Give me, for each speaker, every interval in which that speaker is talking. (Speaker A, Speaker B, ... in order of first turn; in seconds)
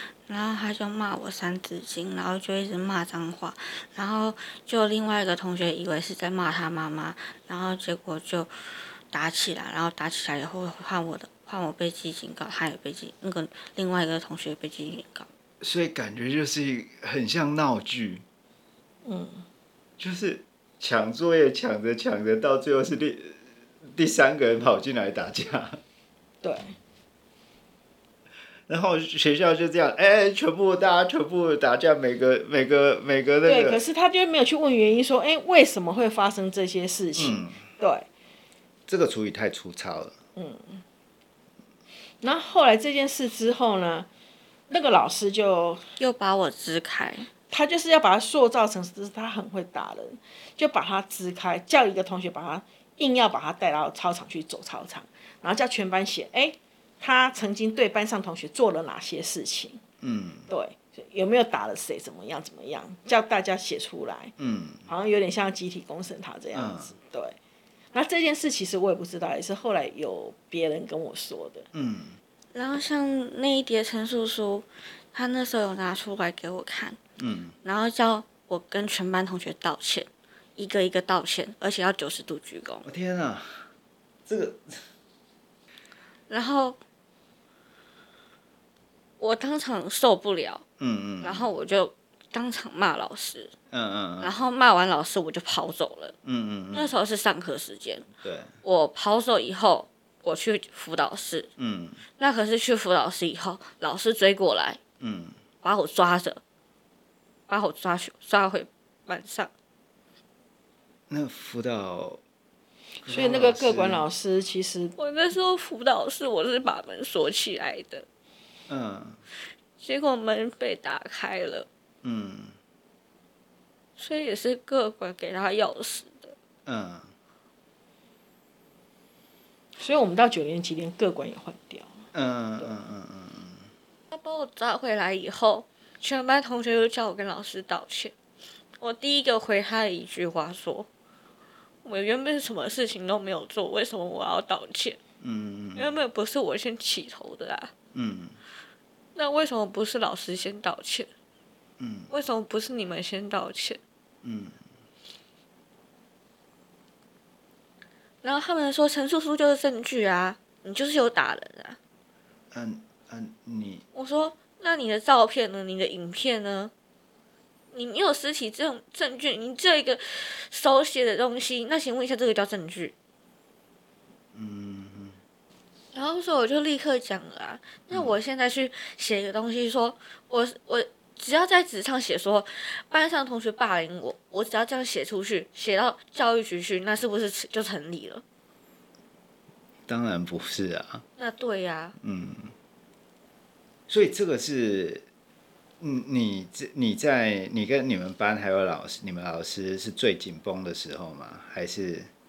Speaker A: 0.3-8.5, 9.1-15.3, 46.0-47.3, 72.5-77.0, 77.6-82.8, 86.3-86.8, 89.2-90.6, 91.2-93.5, 94.2-96.1, 96.7-98.0, 98.6-101.5, 102.2-104.8, 105.6-106.4, 107.5-109.5, 115.0-118.0, 119.8-121.7, 124.0-126.3, 134.1-138.1, 138.8-140.9, 141.8-145.0, 145.7-147.7, 149.1-151.1, 152.1-153.8, 158.2-161.8, 163.9-166.7, 167.7-172.9, 175.9-188.2, 191.2-191.9
Speaker B: 15.6-18.2, 20.0-25.8, 28.7-33.8, 37.1-37.5, 38.9-40.1, 60.0-60.5, 64.4-64.9, 66.5-66.9, 71.7-72.2, 77.2-77.5, 82.8-83.7, 84.2-84.8, 90.8-91.5, 93.7-94.3, 96.2-96.9, 98.2-98.5, 101.6-102.0, 105.0-105.3, 111.1-112.2, 113.0-114.0, 118.7-119.2, 122.0-122.5, 126.7-127.1, 132.1-133.6, 145.2-145.9, 147.9-148.3, 151.8-152.1, 154.2-154.6, 162.5-163.8, 174.3-175.2, 189.9-191.0, 192.0-192.5, 193.9-195.0, 195.8-202.1
Speaker C: 19.0-19.4, 26.4-26.7, 33.4-38.0, 40.4-40.8, 42.2-44.1, 44.7-45.9, 47.5-59.8, 60.5-64.3, 64.9-67.3, 67.9-71.7, 113.0-115.0, 129.8-132.0